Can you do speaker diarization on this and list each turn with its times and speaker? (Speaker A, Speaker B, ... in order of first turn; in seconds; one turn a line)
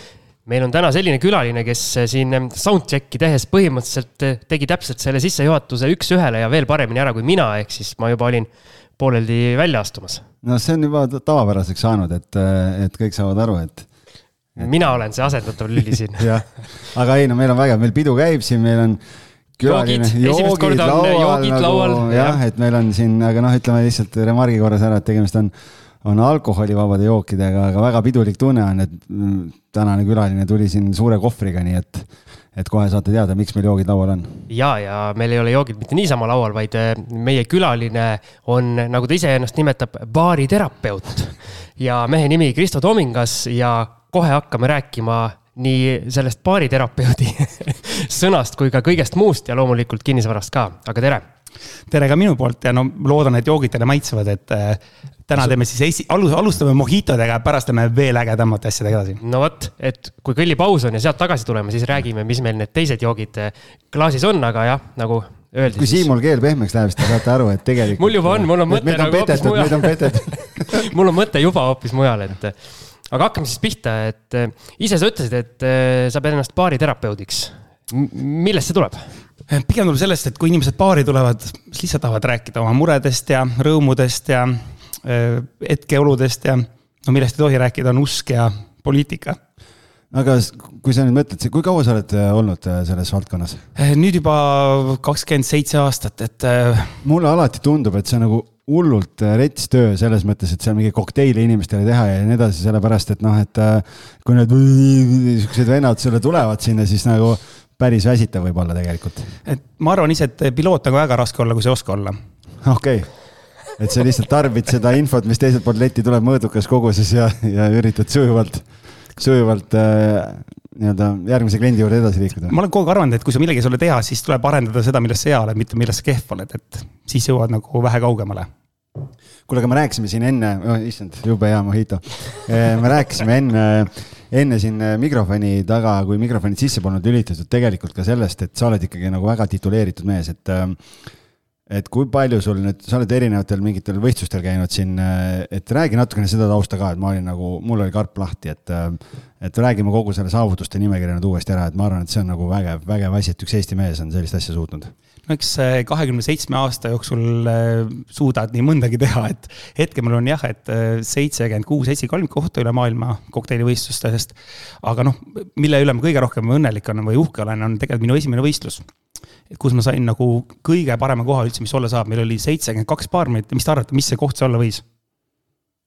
Speaker A: 0.5-10.2
Speaker B: 10.4-13.9
Speaker A: 14.6-16.9
Speaker B: 14.6-19.0
Speaker B: 19.6-34.5
Speaker A: 19.6-22.4
Speaker A: 34.5-51.2
Speaker C: 51.9-59.2
Speaker A: 59.2-66.1
Speaker B: 65.8-70.9
Speaker A: 68.0-79.2
Speaker C: 79.5-89.4
Speaker B: 90.1-93.7
Speaker C: 93.8-97.0
Speaker B: 97.0-109.4
Speaker C: 109.5-112.2
Speaker B: 112.6-122.6
Speaker C: 122.5-128.5
Speaker B: 129.5-141.1
Speaker B: 141.7-154.9
Speaker C: 155.3-168.8
Speaker C: 169.5-174.8